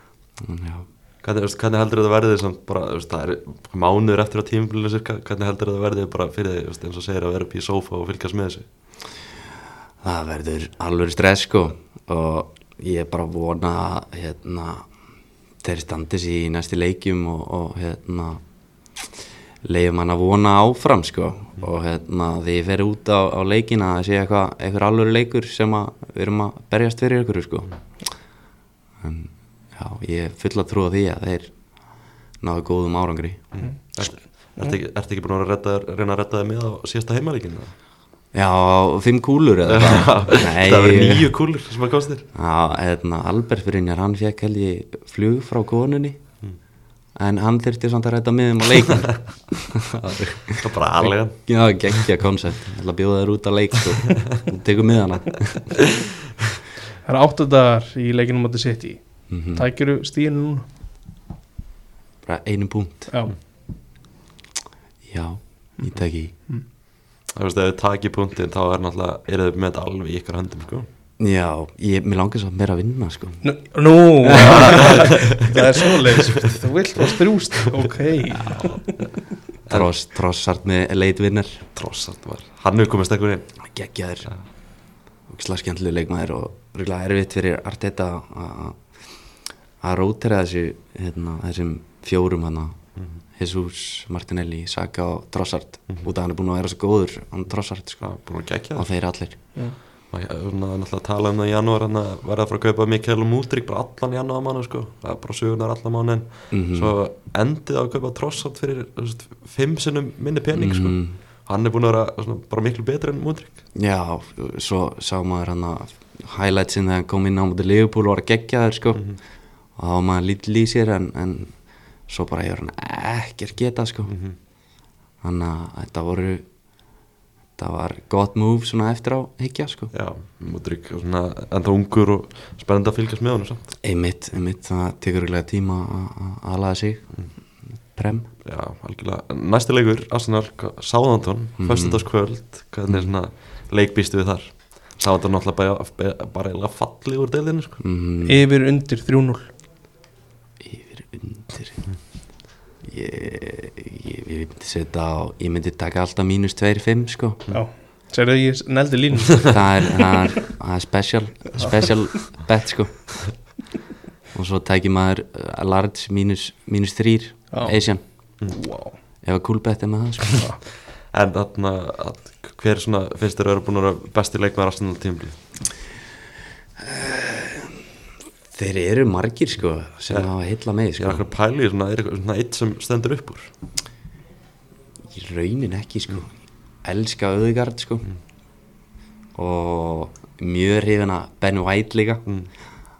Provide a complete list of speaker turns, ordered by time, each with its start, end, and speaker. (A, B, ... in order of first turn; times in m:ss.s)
0:00.4-0:00.8 A
0:01.2-0:08.6 B
0:10.0-0:14.9 A
0:15.6-0:18.4 A
0:19.0-0:27.7 A
0:29.0-0:31.5 A
0:32.4-0:33.5 A
0:33.5-0:37.7 B
0:38.3-0:41.3 A
0:39.6-0:42.3 B
0:42.3-0:46.2 A
0:47.2-0:55.8 A
0:50.6-0:51.4 B
0:57.0-1:00.6 C
0:59.3-0:59.6 A
1:02.2-1:03.1 A
1:03.1-1:03.4 C
1:05.1-1:06.3 A
1:07.3-1:10.9 B
1:11.2-1:13.4 A
1:13.4-1:18.9 C
1:14.2-1:15.1 A
1:14.3-1:15.7 B
1:16.2-1:16.5 B
1:18.4-1:19.0 B
1:19.7-1:21.6 A
1:21.8-1:23.5 B
1:23.6-1:24.3 A
1:25.3-1:28.8 A
1:29.8-1:32.8 A
1:33.4-1:38.1 A
1:38.0-1:38.9 B
1:38.8-1:39.4 A
1:40.1-1:53.6 B
1:46.5-1:46.9 A
1:50.5-1:51.1 A
1:53.7-1:59.0 A
1:59.8-2:01.5 A
2:02.1-2:04.1 A
2:04.1-2:04.3 B
2:05.2-2:06.4 A
2:07.6-2:09.9 A
2:09.9-2:13.7 B
2:13.8-2:17.1 A
2:17.9-2:18.3 A
2:18.4-2:27.8 B
2:21.6-2:22.0 A
2:27.8-2:28.4 A
2:28.2-2:29.5 C
2:30.6-2:31.8 A
2:32.8-2:37.4 A
2:37.5-2:40.1 C
2:39.4-2:43.3 A
2:41.6-2:41.9 C
2:44.3-2:48.0 A
2:48.5-2:48.9 C
2:49.2-2:50.4 A
2:51.1-2:55.4 B
2:56.8-2:57.8 A
2:58.5-3:01.2 A
3:01.0-3:03.5 B
3:05.1-3:06.3 A
3:06.8-3:08.1 A
3:09.3-3:12.2 A